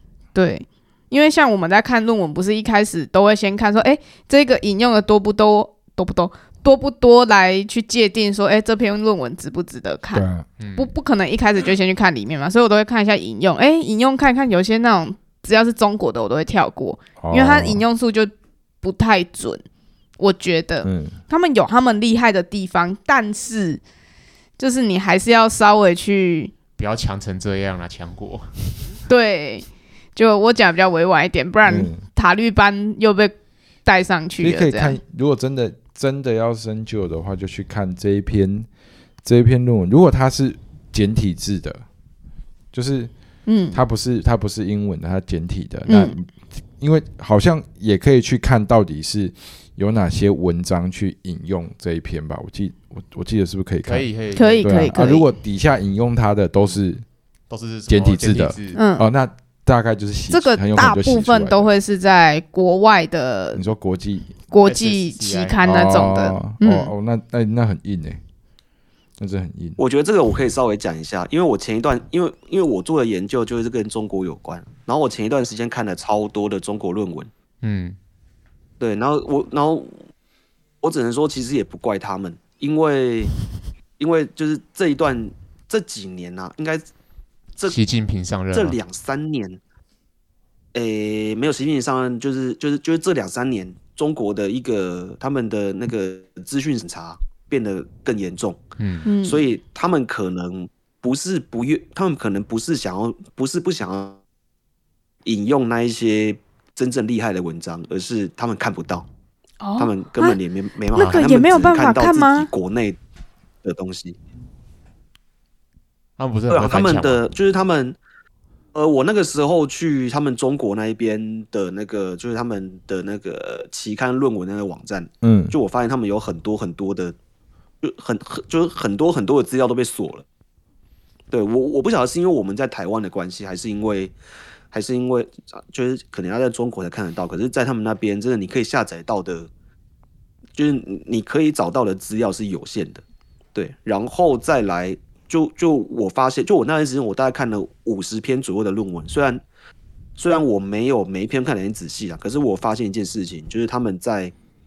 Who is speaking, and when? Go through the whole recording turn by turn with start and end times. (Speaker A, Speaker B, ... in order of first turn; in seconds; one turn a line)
Speaker A: 0.3-18.3
Speaker B: 10.1-10.4
Speaker C: 10.6-10.9
Speaker B: 17.2-17.8
Speaker A: 18.8-19.6
Speaker A: 20.2-23.8
Speaker B: 20.8-21.2
Speaker A: 24.6-26.5
Speaker C: 26.8-28.5
Speaker A: 29.1-33.3
Speaker B: 31.6-32.0
Speaker A: 33.8-35.0
Speaker B: 34.4-38.7
Speaker B: 39.2-41.8
Speaker B: 42.7-43.1
Speaker A: 43.5-43.8
Speaker B: 43.7-54.1
Speaker A: 45.9-46.1
Speaker C: 53.9-55.2
Speaker A: 54.3-55.2
Speaker B: 54.6-57.0
Speaker C: 57.5-58.8
Speaker B: 57.9-61.7
Speaker A: 58.7-59.0
Speaker A: 60.3-63.6
Speaker B: 63.5-64.3
Speaker A: 64.5-66.9
Speaker C: 64.6-65.6
Speaker B: 65.6-68.2
Speaker B: 69.2-69.8
Speaker D: 69.8-77.3
Speaker C: 77.6-78.0
Speaker D: 78.8-80.0
Speaker D: 80.8-83.3
Speaker D: 84.0-86.8
Speaker C: 87.6-88.8
Speaker D: 88.5-89.6
Speaker D: 90.7-98.6
Speaker C: 98.8-99.1
Speaker A: 99.0-99.4
Speaker D: 99.2-104.2
Speaker D: 105.2-109.0
Speaker A: 109.6-110.4
Speaker D: 109.8-113.0
Speaker A: 110.9-112.5
Speaker D: 113.6-114.2
Speaker C: 116.2-117.2
Speaker D: 116.5-118.0
Speaker D: 118.7-127.1
Speaker B: 125.2-125.5
Speaker D: 127.8-130.2
Speaker D: 131.3-134.1
Speaker D: 134.7-139.5
Speaker D: 140.6-143.0
Speaker D: 143.5-149.4
Speaker D: 150.2-154.3